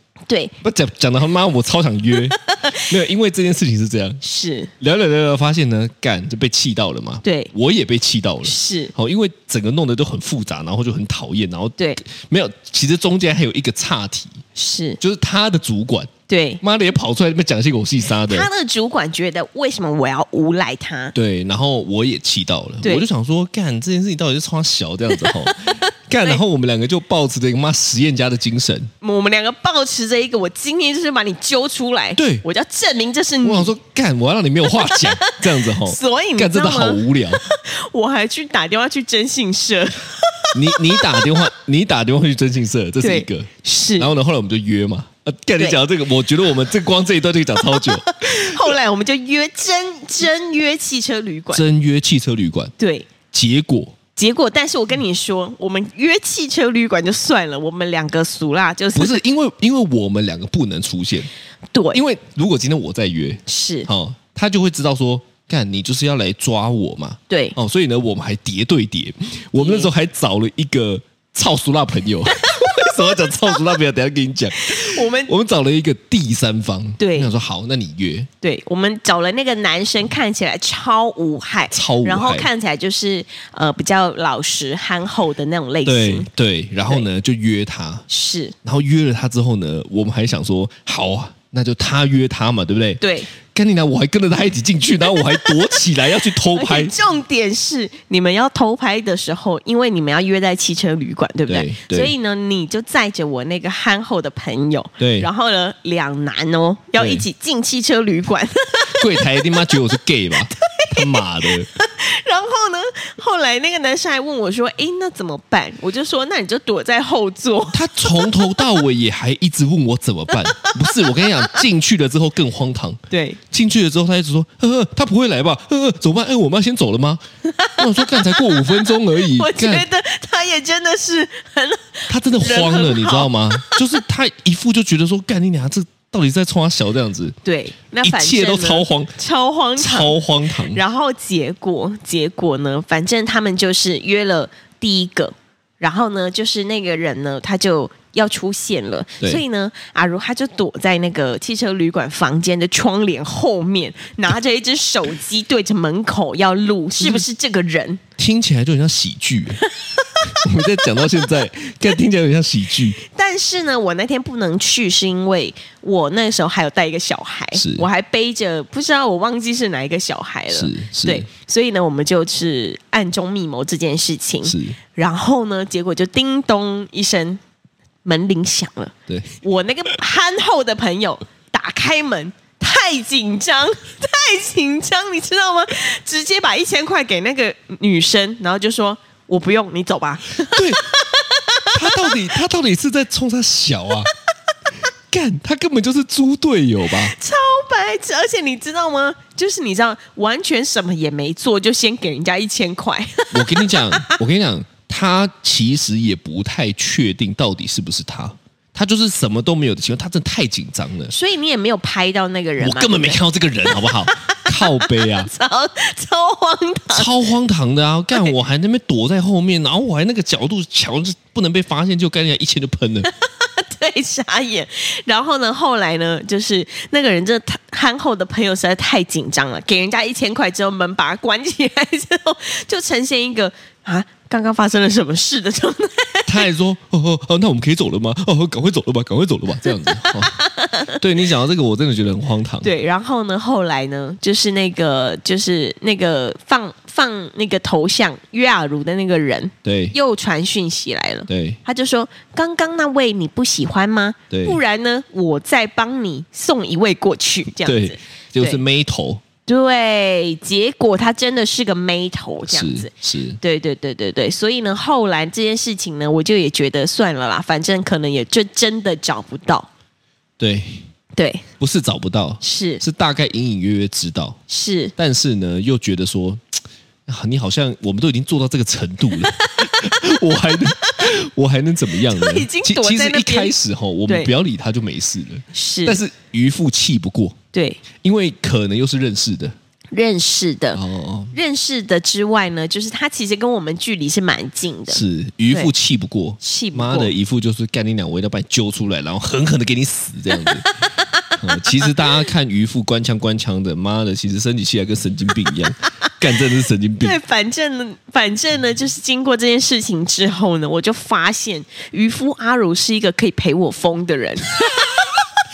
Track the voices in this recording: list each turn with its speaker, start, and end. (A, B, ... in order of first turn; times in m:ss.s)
0:00.3-0:00.5 A
0:00.6-0:04.2 B
0:02.3-0:02.9 A
0:04.2-0:04.7 A
0:04.8-0:14.4 B
0:07.2-0:07.5 A
0:08.4-0:08.9 A
0:11.8-0:12.0 A
0:14.5-0:15.0 A
0:15.0-0:18.5 B
0:16.3-0:16.6 A
0:18.2-0:21.1 A
0:21.1-0:28.9 B
0:25.1-0:26.4 A
0:29.0-0:33.7 A
0:32.2-0:32.4 B
0:33.4-0:37.4 B
0:34.8-0:41.4 A
0:40.5-0:48.7 B
0:43.0-0:44.1 A
0:47.7-0:51.6 A
0:51.5-0:52.7 B
0:52.8-0:53.1 A
0:53.3-0:54.0 B
0:54.2-0:59.2 A
0:58.9-1:01.3 B
1:01.7-1:02.0 A
1:01.9-1:18.3 B
1:03.5-1:03.9 A
1:07.3-1:07.6 A
1:09.5-1:09.9 A
1:12.3-1:13.6 A
1:14.6-1:15.3 A
1:17.0-1:17.3 A
1:18.4-1:26.3 A
1:21.7-1:22.5 B
1:25.8-1:28.0 B
1:28.1-1:28.5 A
1:28.6-1:36.9 B
1:33.0-1:33.3 A
1:36.5-1:49.9 A
1:41.5-1:42.1 B
1:45.0-1:45.3 B
1:47.0-1:47.2 B
1:48.9-1:51.7 B
1:50.5-1:58.7 A
1:57.7-2:07.2 B
2:00.4-2:01.6 A
2:03.1-2:03.4 A
2:07.4-2:14.0 A
2:07.8-2:09.8 B
2:12.1-2:17.4 B
2:17.4-2:20.2 A
2:18.0-2:19.1 B
2:19.8-2:20.8 B
2:20.7-2:38.0 A
2:37.0-2:37.2 B
2:38.2-2:39.6 B
2:39.8-2:40.4 A
2:40.3-2:43.0 B
2:43.0-2:57.4 A
2:47.5-2:47.9 B
2:50.5-2:51.3 B
2:54.4-2:54.8 B
2:58.0-3:12.3 A
2:59.1-2:59.3 B
3:10.5-3:10.9 B
3:11.7-3:14.1 B
3:15.1-3:17.1 B
3:16.9-3:24.2 A
3:23.3-3:31.1 B
3:31.1-3:33.2 A
3:32.6-3:35.3 B
3:33.8-3:37.1 A
3:36.9-3:43.1 B
3:43.0-3:56.5 A
3:56.3-4:00.4 B
3:59.9-4:01.0 A
4:01.0-4:02.7 B
4:02.6-4:18.6 A
4:09.6-4:10.0 B
4:11.3-4:11.6 B
4:14.3-4:14.6 B
4:17.6-4:19.2 B
4:19.5-4:29.7 A
4:22.5-4:23.4 B
4:30.4-4:30.8 B
4:31.2-4:31.4 A
4:31.6-4:34.4 B
4:32.4-4:32.8 A
4:34.5-4:34.9 A
4:35.0-4:47.4 B
4:39.3-4:39.8 A
4:42.1-4:43.5 A
4:44.1-4:44.3 A
4:45.5-4:46.0 A
4:47.5-4:47.8 A
4:47.9-4:49.6 B
4:49.9-4:50.8 A
4:50.7-4:51.4 B
4:51.3-4:55.7 A
4:54.9-5:00.6 B
4:56.4-4:57.1 A
5:00.4-5:02.2 A
5:01.4-5:07.2 B
5:07.0-5:15.2 A